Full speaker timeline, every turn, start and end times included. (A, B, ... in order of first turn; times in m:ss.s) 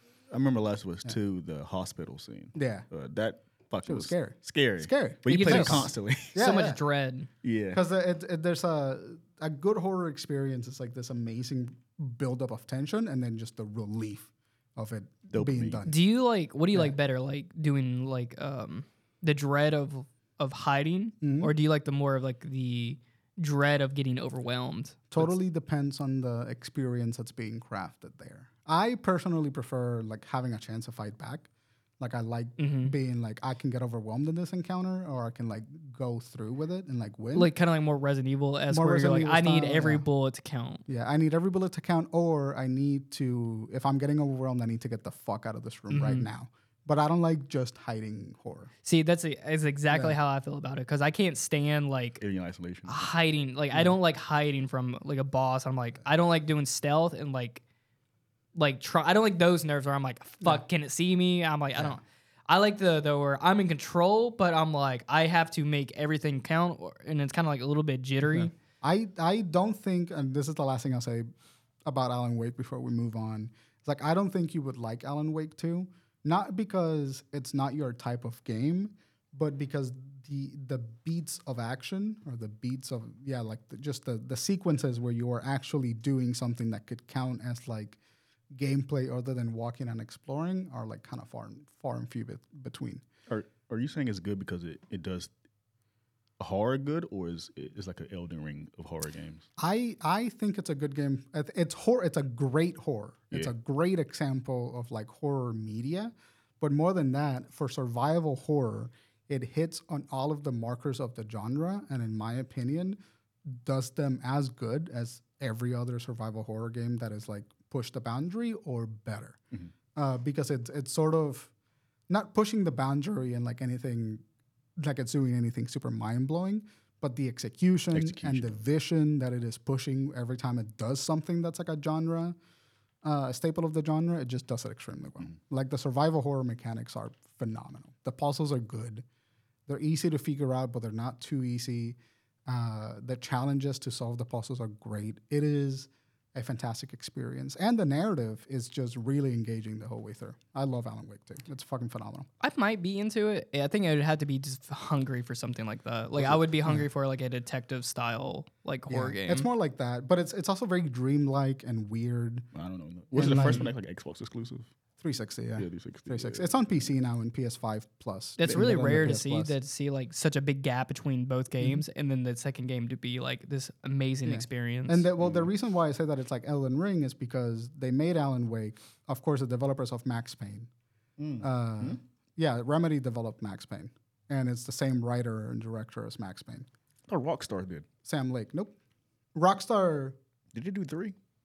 0:00.3-0:06.4 A
0:02.5-0:02.9 B
0:03.8-0:06.8 B
0:05.3-0:07.3 C
0:07.4-0:07.8 A
0:07.7-0:16.0 B
0:15.3-0:15.8 A
0:15.9-0:25.3 C
0:21.2-0:21.5 B
0:25.1-0:31.5 B
0:32.0-0:37.5 B
0:32.6-0:32.9 C
0:37.3-0:40.8 C
0:38.7-0:40.0 B
0:40.9-0:48.7 B
0:45.9-0:46.3 C
0:48.8-0:52.2 C
0:49.9-0:50.2 B
0:52.2-0:53.0 A
0:52.9-0:57.6 C
0:58.6-1:08.5 C
1:08.2-1:11.3 B
1:11.8-1:28.0 B
1:28.5-1:33.0 B
1:33.3-1:35.3 A
1:36.4-1:39.4 A
1:39.6-1:59.4 B
1:59.9-2:01.5 B
2:02.1-2:04.2 B
2:04.8-2:12.4 B
2:07.9-2:08.5 A
2:13.0-2:19.0 B
2:19.7-2:32.3 B
2:32.4-2:39.5 C
2:38.9-2:42.5 B
2:42.5-2:44.7 A
2:43.1-2:43.7 B
2:45.0-2:49.5 B
2:45.6-2:46.7 A
2:48.4-2:55.0 C
2:54.2-3:00.7 B
2:55.2-2:55.5 A
3:01.2-3:02.0 A
3:01.4-3:06.7 B
3:07.1-3:07.9 A
3:08.0-3:08.8 B
3:09.3-3:10.2 B
3:10.5-3:11.1 A